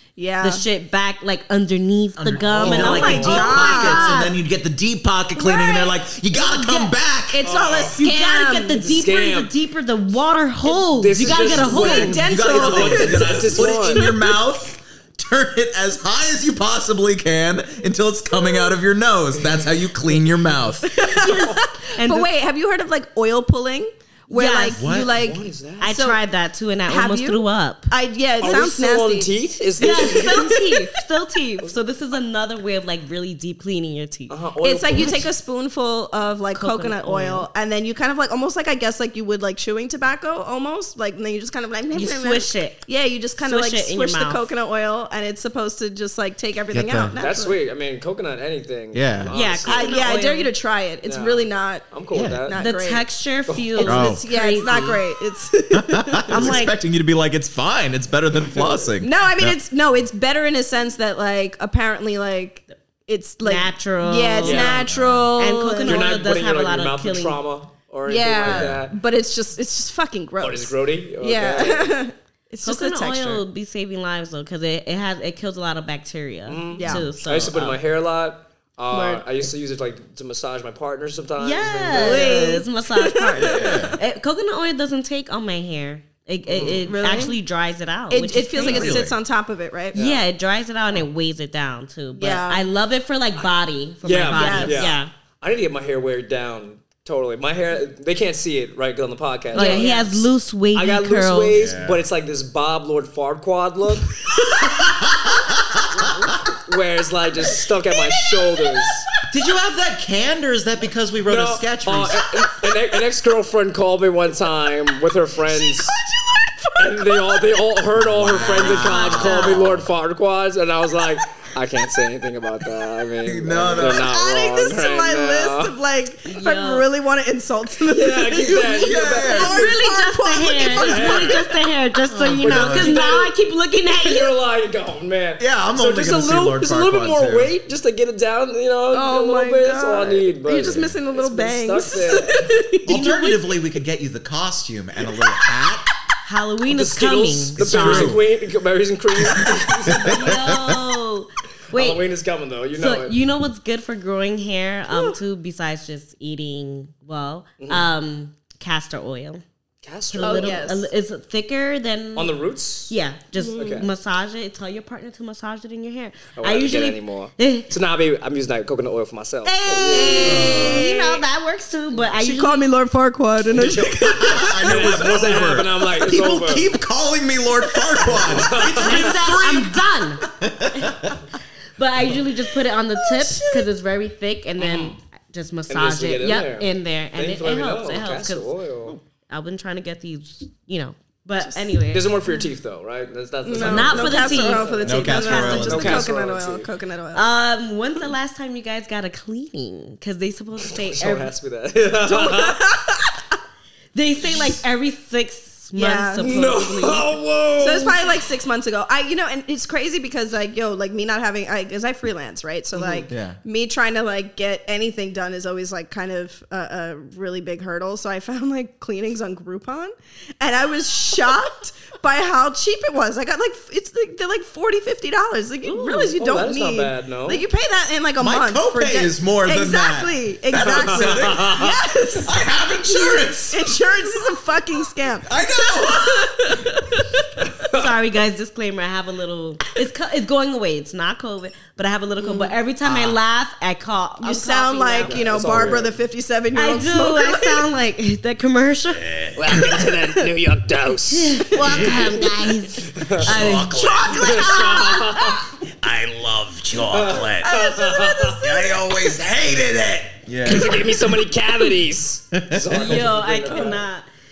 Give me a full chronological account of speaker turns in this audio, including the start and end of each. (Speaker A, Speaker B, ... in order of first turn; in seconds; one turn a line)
Speaker A: 0.1-0.6
Speaker B: 0.4-4.4
Speaker C: 2.2-7.5
Speaker A: 2.6-4.2
Speaker D: 2.9-3.4
Speaker A: 5.4-5.9
Speaker B: 6.4-6.9
Speaker A: 7.3-8.8
Speaker D: 7.4-8.0
Speaker B: 7.9-12.2
Speaker D: 8.8-9.5
Speaker D: 10.7-14.1
Speaker C: 11.2-21.0
Speaker A: 11.5-14.4
Speaker A: 18.4-18.7
Speaker A: 20.9-26.2
Speaker B: 21.1-22.3
Speaker D: 21.2-21.5
Speaker B: 24.3-24.8
Speaker C: 24.8-25.2
Speaker D: 25.1-25.9
Speaker B: 25.8-27.9
Speaker A: 26.9-30.9
Speaker D: 28.4-30.6
Speaker B: 29.8-34.4
Speaker D: 34.3-35.3
Speaker A: 34.6-47.6
Speaker B: 36.5-37.5
Speaker B: 41.9-42.9
Speaker B: 43.4-44.5
Speaker C: 46.7-47.2
Speaker D: 47.2-50.1
Speaker C: 48.9-49.3
Speaker B: 49.3-50.5
Speaker A: 49.6-53.1
Speaker D: 51.0-52.6
Speaker C: 52.1-52.4
Speaker B: 52.5-55.0
Speaker D: 53.5-53.8
Speaker A: 53.8-56.6
Speaker C: 53.8-54.2
Speaker C: 55.7-59.6
Speaker B: 56.3-56.8
Speaker D: 58.5-58.9
Speaker A: 59.0-66.1
Speaker B: 63.4-64.8
Speaker D: 64.4-64.9
Speaker C: 64.8-65.3
Speaker B: 65.4-67.4
Speaker D: 65.8-68.9
Speaker A: 68.1-73.4
Speaker C: 68.4-68.8
Speaker D: 70.4-72.0
Speaker B: 72.6-77.8
Speaker D: 76.5-82.5
Speaker A: 76.8-77.1
Speaker A: 78.9-79.2
Speaker B: 81.4-89.0
Speaker A: 81.9-83.9
Speaker C: 83.4-84.0
Speaker D: 86.5-86.9
Speaker A: 86.6-87.4
Speaker A: 88.1-90.0
Speaker C: 88.6-89.2
Speaker D: 89.9-90.2
Speaker B: 89.9-95.1
Speaker A: 92.1-92.6
Speaker D: 94.0-104.3
Speaker A: 94.3-95.0
Speaker A: 99.5-100.1
Speaker B: 99.5-101.6
Speaker C: 101.5-102.0
Speaker C: 104.4-106.3
Speaker D: 106.0-109.0
Speaker A: 107.5-109.0
Speaker C: 109.3-112.2
Speaker D: 111.2-116.0
Speaker A: 115.4-117.5
Speaker D: 116.8-125.8
Speaker C: 118.0-119.9
Speaker B: 118.6-119.6
Speaker C: 123.2-124.1
Speaker A: 123.7-131.5
Speaker B: 126.2-126.8
Speaker D: 127.9-129.6
Speaker C: 128.7-129.8
Speaker B: 129.4-134.3
Speaker D: 130.6-131.4
Speaker C: 132.1-133.0
Speaker D: 132.4-133.3
Speaker D: 134.0-142.5
Speaker C: 135.4-137.5
Speaker A: 138.9-142.9
Speaker C: 140.6-140.9
Speaker C: 142.8-145.9
Speaker B: 142.9-143.5
Speaker B: 146.2-148.2
Speaker D: 146.7-150.3
Speaker C: 147.6-148.2
Speaker C: 149.2-150.8
Speaker B: 150.0-152.0
Speaker D: 151.7-153.2
Speaker B: 152.8-159.4
Speaker A: 154.9-155.2
Speaker D: 157.6-157.9
Speaker D: 159.8-160.7
Speaker B: 160.1-162.4
Speaker A: 160.2-160.9
Speaker D: 162.2-162.9
Speaker B: 162.9-167.7
Speaker A: 163.4-163.9
Speaker D: 163.5-163.9
Speaker D: 166.4-170.7
Speaker B: 169.4-172.6
Speaker A: 169.9-171.2
Speaker C: 170.2-170.9
Speaker A: 172.1-175.1
Speaker D: 173.5-176.7
Speaker C: 174.0-181.2
Speaker A: 177.7-178.4
Speaker D: 178.1-179.1
Speaker B: 178.8-180.2
Speaker B: 181.8-188.6
Speaker A: 183.0-183.7
Speaker D: 184.6-185.0
Speaker D: 185.7-189.0
Speaker B: 189.3-192.1
Speaker A: 191.4-191.7
Speaker D: 191.9-196.7
Speaker A: 193.4-197.3
Speaker B: 193.6-196.0
Speaker C: 194.8-196.1
Speaker B: 197.1-201.3
Speaker D: 200.7-202.6
Speaker A: 202.0-203.4
Speaker B: 203.9-207.1
Speaker A: 205.8-206.5
Speaker D: 206.2-208.2
Speaker A: 207.6-237.4
Speaker D: 212.8-213.0
Speaker C: 213.1-213.4
Speaker B: 225.6-226.1
Speaker D: 226.2-227.4
Speaker C: 228.2-233.9
Speaker D: 230.5-231.8
Speaker C: 235.2-236.7
Speaker D: 237.6-237.9
Speaker B: 237.7-245.7
Speaker A: 242.2-242.5
Speaker C: 242.8-243.2
Speaker A: 244.2-247.6
Speaker D: 245.0-246.0
Speaker B: 246.5-249.0
Speaker C: 248.9-249.9
Speaker D: 249.3-251.6
Speaker B: 251.1-254.0
Speaker C: 251.6-252.2
Speaker D: 252.8-255.5
Speaker C: 253.1-254.7
Speaker A: 253.6-255.5
Speaker C: 255.6-257.5
Speaker D: 256.8-258.4
Speaker A: 257.4-259.2
Speaker C: 258.4-261.2
Speaker D: 260.4-263.8
Speaker C: 262.3-263.1
Speaker B: 262.7-264.1
Speaker A: 263.5-263.8